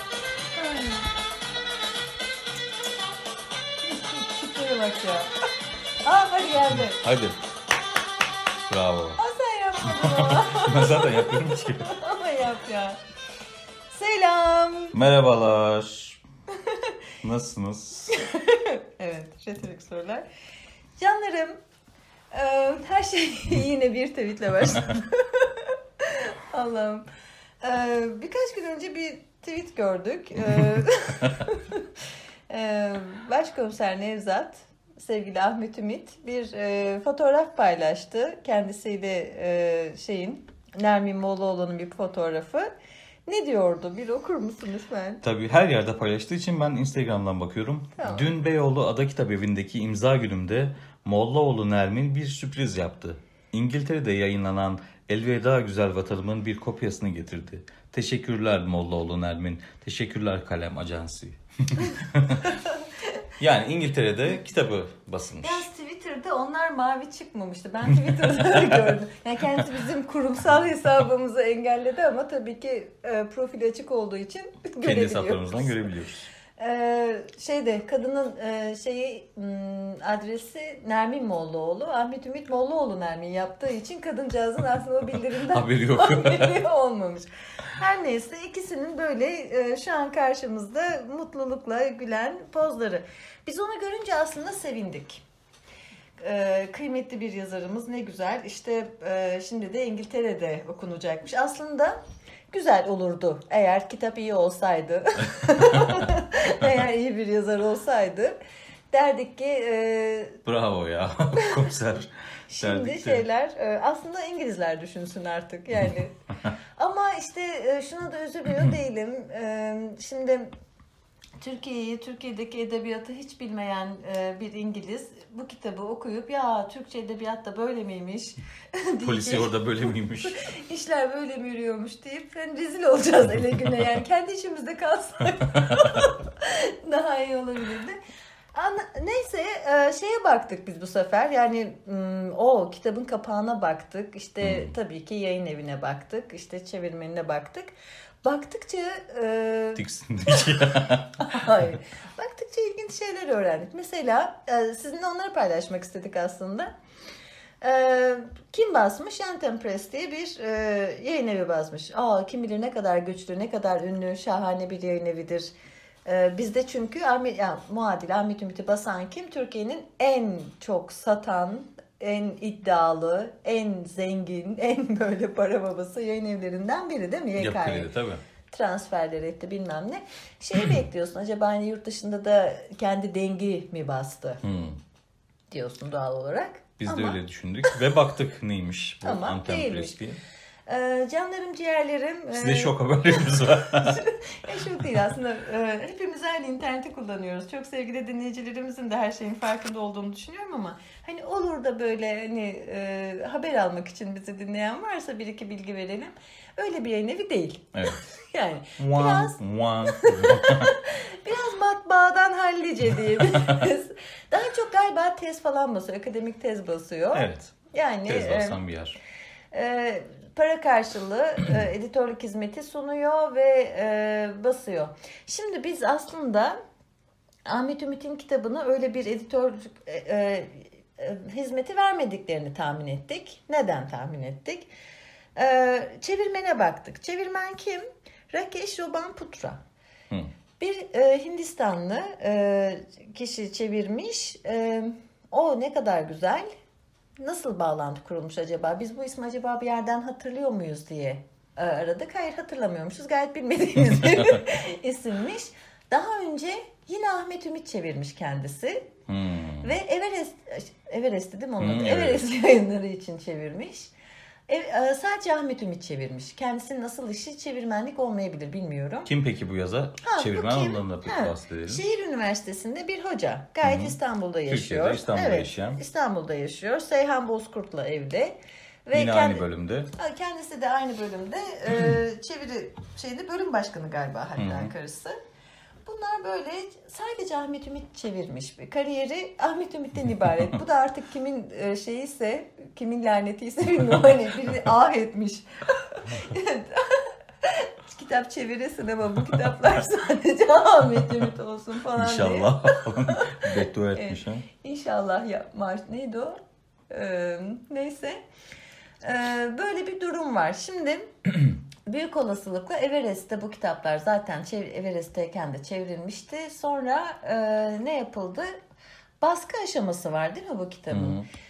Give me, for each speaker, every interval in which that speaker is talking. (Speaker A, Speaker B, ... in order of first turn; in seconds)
Speaker A: 0.6-1.0, 3.9-5.3, 6.0-7.0, 9.2-13.0, 13.9-14.9, 16.6-16.9, 18.1-20.2, 21.0-21.6, 22.3-27.1, 27.6-31.9, 32.5-42.7, 43.3-45.2, 48.0-48.3, 62.6-63.2, 65.4-75.8, 76.5-95.2, 96.2-102.0, 102.5-108.3, 108.9-110.4, 111.3-111.8, 112.5-116.2, 116.8-120.5, 121.4-138.0, 138.5-147.7, 148.2-150.7, 151.2-156.7, 157.6-165.5, 166.0-177.9, 178.5-184.4, 185.5-187.2, 189.0-190.0, 190.7-218.6, 219.5-226.6, 227.4-234.7, 235.3-239.6, 240.6-246.5, 247.2-258.9, 259.6-263.9, 264.5-269.1, 270.0-285.2, 285.9-306.4, 306.9-308.2, 309.0-311.1, 311.9-318.5, 319.2-321.2
Speaker B: 6.9-7.4, 8.7-9.2, 9.9-11.9, 14.9-16.2, 17.2-18.1, 45.2-62.5, 63.4-65.7, 68.0-68.7, 74.8-76.3, 85.5-86.6, 105.7-106.1, 110.5-113.2, 129.0-130.4, 144.4-144.7, 149.8-151.5, 177.4-178.2, 184.4-184.8, 186.8-190.2, 192.3-194.0, 207.7-208.1, 208.8-210.7, 213.2-213.6, 217.1-217.5, 218.1-219.0, 259.1-259.7, 261.6-262.2, 269.1-271.8, 273.6-274.0, 274.5-275.8, 278.9-279.9, 284.4-284.7, 301.9-304.5, 320.9-321.2